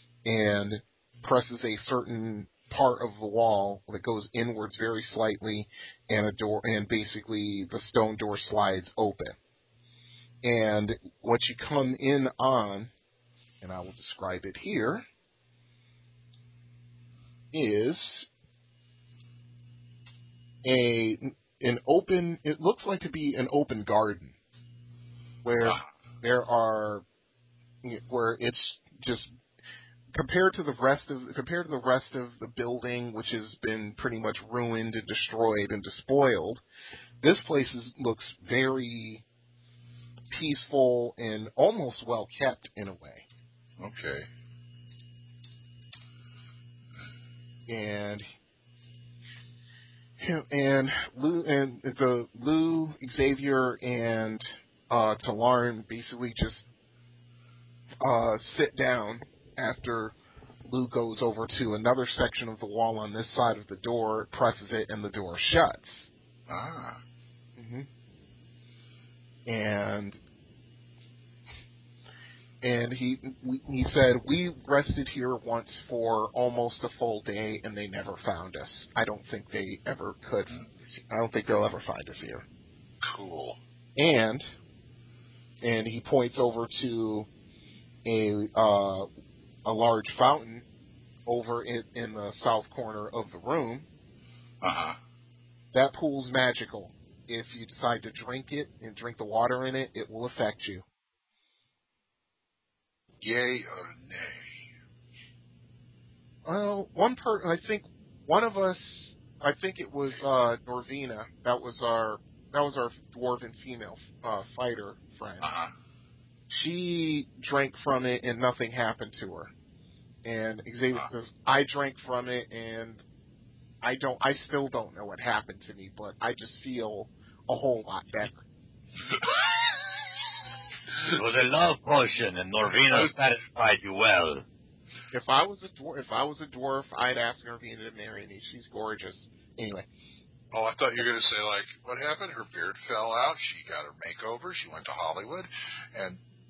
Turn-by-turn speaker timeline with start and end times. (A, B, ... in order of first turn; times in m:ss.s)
0:00.2-0:09.4 A
0:10.4-0:12.9 A
0:13.6-0:15.0 A
0:17.5-0:18.3 A
0:20.6-0:24.4 A
0:25.4-0:27.0 A
0:25.6-0:25.9 B
0:27.8-0:29.4 A
0:30.1-0:36.6 A
0:37.2-0:39.2 A
0:40.3-0:43.2 A
0:43.8-0:44.3 B
0:47.7-0:48.3 A
0:50.2-0:56.6 A
0:58.0-1:00.2 A
1:00.7-1:06.1 A
1:06.5-1:07.0 B
1:07.6-1:07.9 A
1:09.5-1:10.2 A
1:12.6-1:22.4 A
1:23.0-1:23.6 B
1:24.0-1:24.5 A
1:25.6-1:27.3 A
1:28.0-1:29.1 A
1:29.6-1:30.6 A
1:31.3-1:33.9 A
1:34.6-1:35.0 B
1:35.7-1:40.8 A
1:43.2-1:44.7 B
1:46.4-1:55.5 A
1:55.4-1:55.7 B
1:56.5-1:59.5 A
2:00.2-2:03.0 A
2:03.8-2:08.4 A
2:11.0-2:14.4 C
2:15.1-2:19.9 A
2:20.5-2:26.2 B